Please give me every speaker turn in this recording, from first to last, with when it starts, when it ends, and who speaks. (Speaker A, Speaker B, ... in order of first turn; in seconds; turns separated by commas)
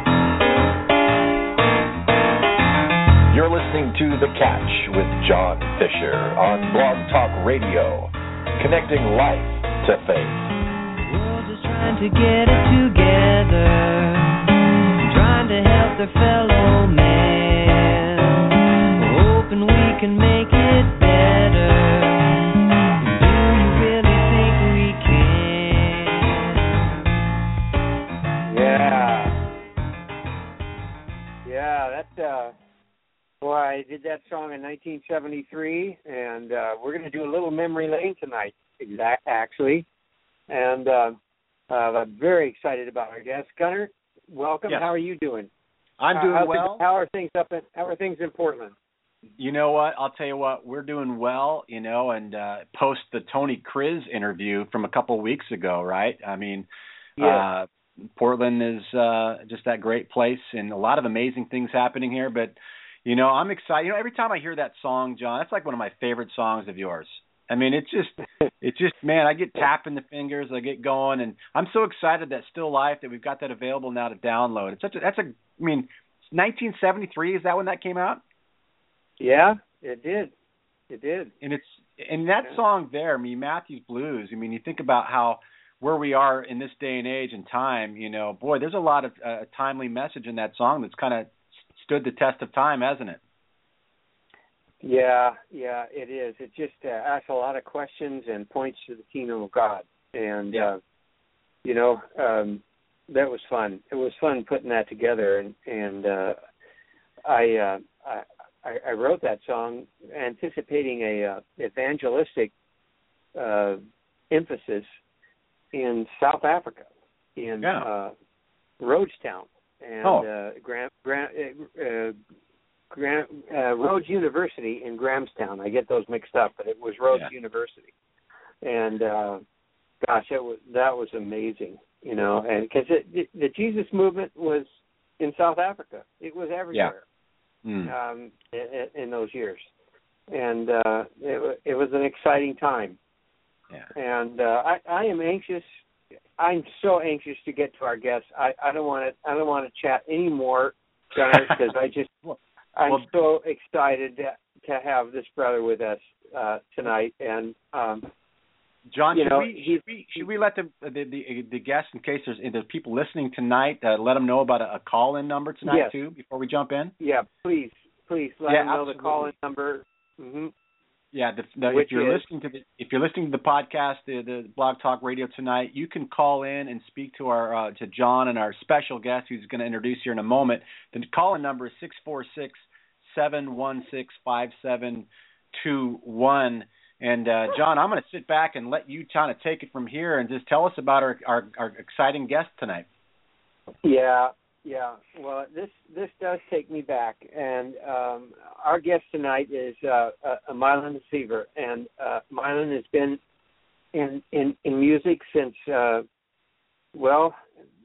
Speaker A: 3.3-10.5, Speaker B: 11.0-14.4, Speaker B: 15.1-18.4, Speaker B: 19.0-22.4, Speaker B: 23.0-26.6, Speaker C: 28.5-29.4, Speaker C: 31.4-32.5, Speaker C: 33.4-39.9, Speaker C: 40.5-41.2, Speaker C: 41.7-45.5, Speaker D: 46.0-46.8, Speaker C: 46.1-48.8, Speaker D: 49.4-78.2, Speaker C: 57.2-57.5, Speaker C: 79.2-80.3, Speaker C: 80.9-81.3, Speaker D: 81.4-93.2, Speaker C: 94.8-100.8, Speaker C: 101.6-106.4, Speaker C: 107.2-112.5, Speaker C: 113.4-113.8, Speaker C: 114.3-114.9, Speaker C: 115.7-118.1, Speaker C: 118.8-122.2, Speaker C: 122.9-127.9, Speaker C: 128.6-129.4, Speaker C: 130.0-134.7, Speaker C: 135.2-137.0, Speaker D: 137.7-137.9, Speaker C: 137.9-139.7, Speaker C: 140.3-143.0, Speaker C: 143.9-145.7, Speaker C: 146.4-152.1, Speaker D: 152.2-153.1, Speaker C: 152.8-158.1, Speaker D: 158.9-166.9, Speaker C: 159.1-160.3, Speaker C: 165.7-165.9, Speaker C: 167.0-170.5, Speaker D: 168.5-169.3, Speaker D: 171.1-192.9, Speaker C: 171.7-172.2, Speaker C: 193.8-203.2, Speaker C: 203.9-206.1, Speaker C: 206.9-207.4